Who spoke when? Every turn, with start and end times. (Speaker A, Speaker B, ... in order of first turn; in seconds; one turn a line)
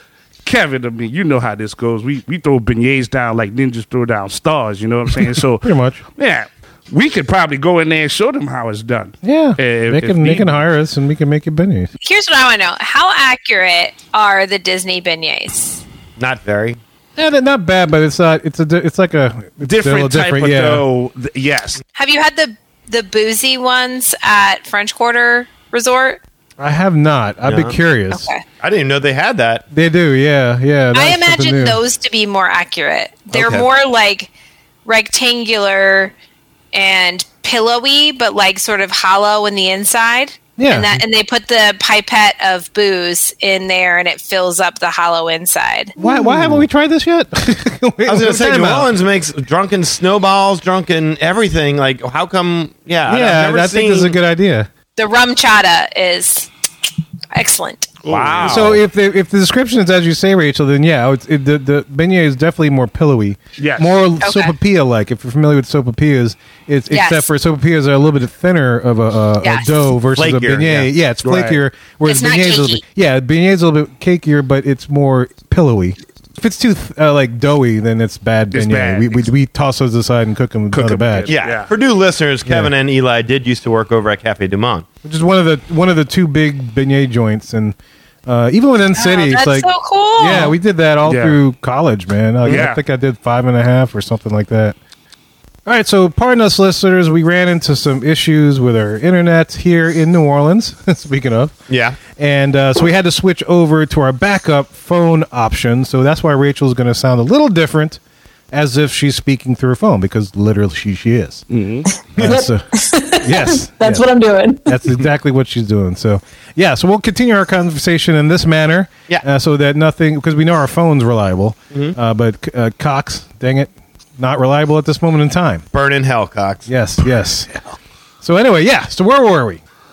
Speaker A: 0.4-10.6
Speaker B: 5.6-6.0
Speaker B: 9.2-11.9
Speaker C: 12.0-15.8
Speaker D: 16.2-16.8
Speaker B: 17.1-20.9
Speaker A: 19.6-21.8
Speaker C: 21.9-26.2
Speaker B: 26.6-28.3
Speaker D: 27.4-27.8
Speaker C: 28.1-28.4
Speaker D: 28.6-29.6
Speaker B: 29.7-31.8
Speaker C: 30.9-34.3
Speaker D: 33.3-33.7
Speaker C: 34.9-36.1
Speaker C: 36.7-45.9
Speaker B: 40.6-41.0
Speaker B: 46.0-48.9
Speaker D: 46.0-46.6
Speaker D: 48.0-54.1
Speaker B: 53.0-54.7
Speaker C: 55.0-56.5
Speaker C: 57.3-57.9
Speaker A: 58.0-58.8
Speaker D: 58.1-58.8
Speaker B: 58.4-81.3
Speaker A: 63.6-63.9
Speaker C: 64.2-64.5
Speaker C: 66.9-67.3
Speaker C: 69.4-69.7
Speaker D: 70.1-70.9
Speaker A: 71.2-71.6
Speaker C: 72.0-72.8
Speaker A: 78.5-79.3
Speaker A: 80.7-81.7
Speaker D: 81.3-84.9
Speaker B: 82.5-82.7
Speaker B: 85.0-94.8
Speaker C: 88.9-90.5
Speaker A: 91.0-91.4
Speaker A: 92.5-92.8
Speaker B: 95.7-101.5
Speaker D: 101.7-102.0
Speaker B: 102.1-108.0
Speaker B: 108.5-111.4
Speaker A: 111.5-111.9
Speaker E: 112.2-114.8
Speaker B: 112.2-114.1
Speaker B: 114.6-125.6
Speaker D: 125.7-126.7
Speaker B: 126.7-129.6